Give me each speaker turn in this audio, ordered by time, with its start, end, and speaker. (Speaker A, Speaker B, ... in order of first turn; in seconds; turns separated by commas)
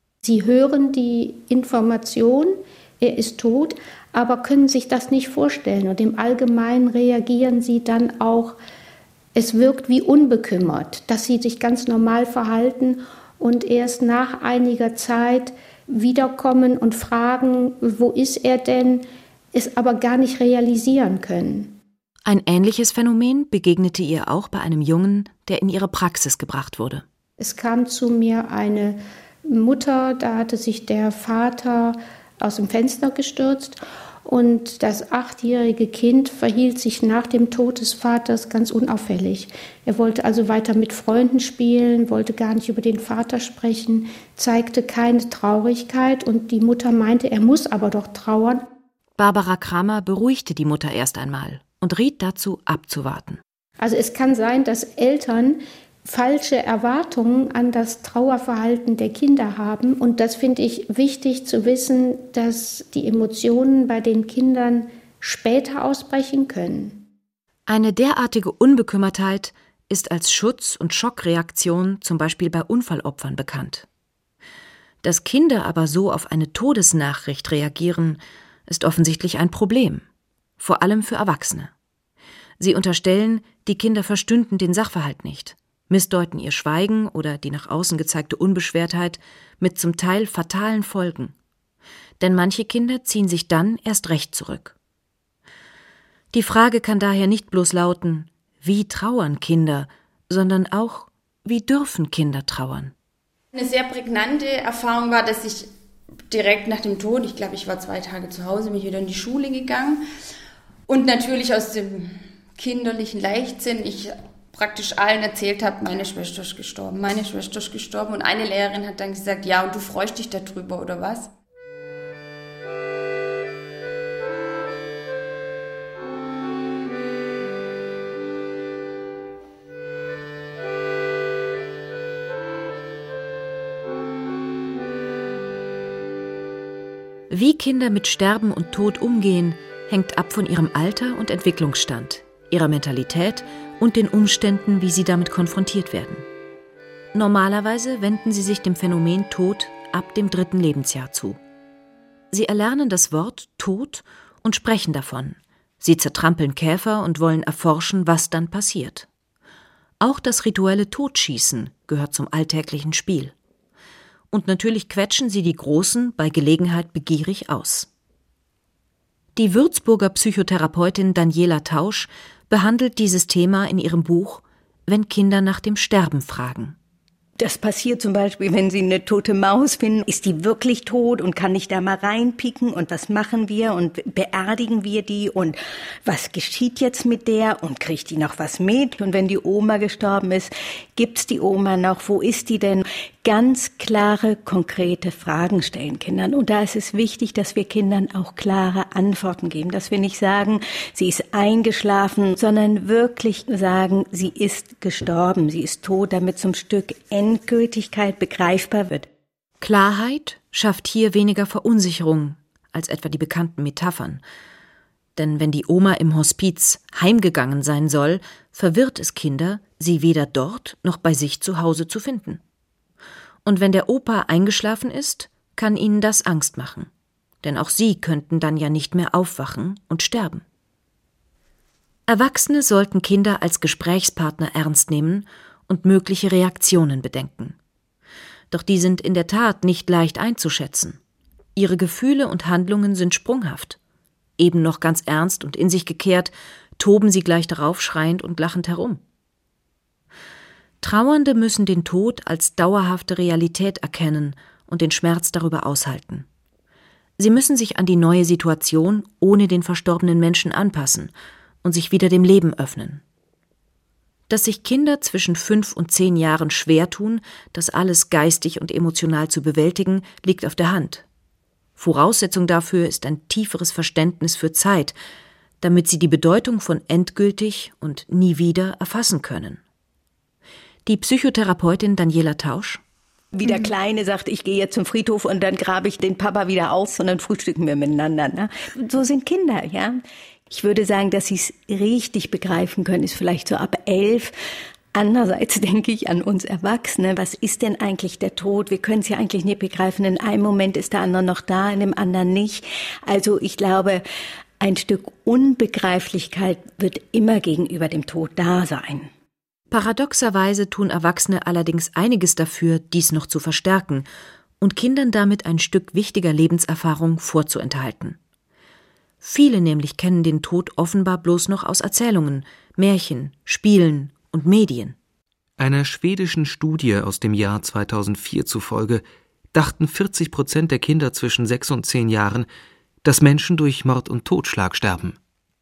Speaker A: 0.2-8.6, Speaker A: 9.3-21.8, Speaker B: 22.2-27.0, Speaker A: 27.4-48.6, Speaker B: 49.2-53.4, Speaker A: 53.8-67.0, Speaker B: 67.7-73.8, Speaker B: 75.0-80.0, Speaker B: 80.6-81.7, Speaker B: 82.6-91.3, Speaker B: 92.2-94.7, Speaker B: 96.3-102.9, Speaker C: 103.5-105.7, Speaker C: 106.3-110.0, Speaker C: 110.9-121.3, Speaker B: 137.3-146.2, Speaker B: 147.1-151.4, Speaker B: 152.3-159.1, Speaker B: 160.0-163.3, Speaker B: 164.3-167.9, Speaker B: 169.3-176.8, Speaker D: 177.4-209.1, Speaker B: 209.6-214.2, Speaker B: 215.2-222.4, Speaker B: 223.4-226.9, Speaker B: 227.4-230.4, Speaker B: 232.1-237.6, Speaker B: 238.5-241.0, Speaker B: 241.5-243.8, Speaker B: 244.4-249.0, Speaker B: 250.8-256.2, Speaker B: 257.2-261.1, Speaker B: 261.6-263.0, Speaker B: 264.3-271.0, Speaker B: 271.8-274.9, Speaker B: 275.6-279.6, Speaker B: 280.9-282.8, Speaker D: 283.3-294.3, Speaker D: 294.9-304.0, Speaker D: 304.6-309.1, Speaker B: 309.7-314.1, Speaker B: 314.6-318.2, Speaker B: 319.2-324.9, Speaker E: 325.6-332.5, Speaker E: 333.0-335.2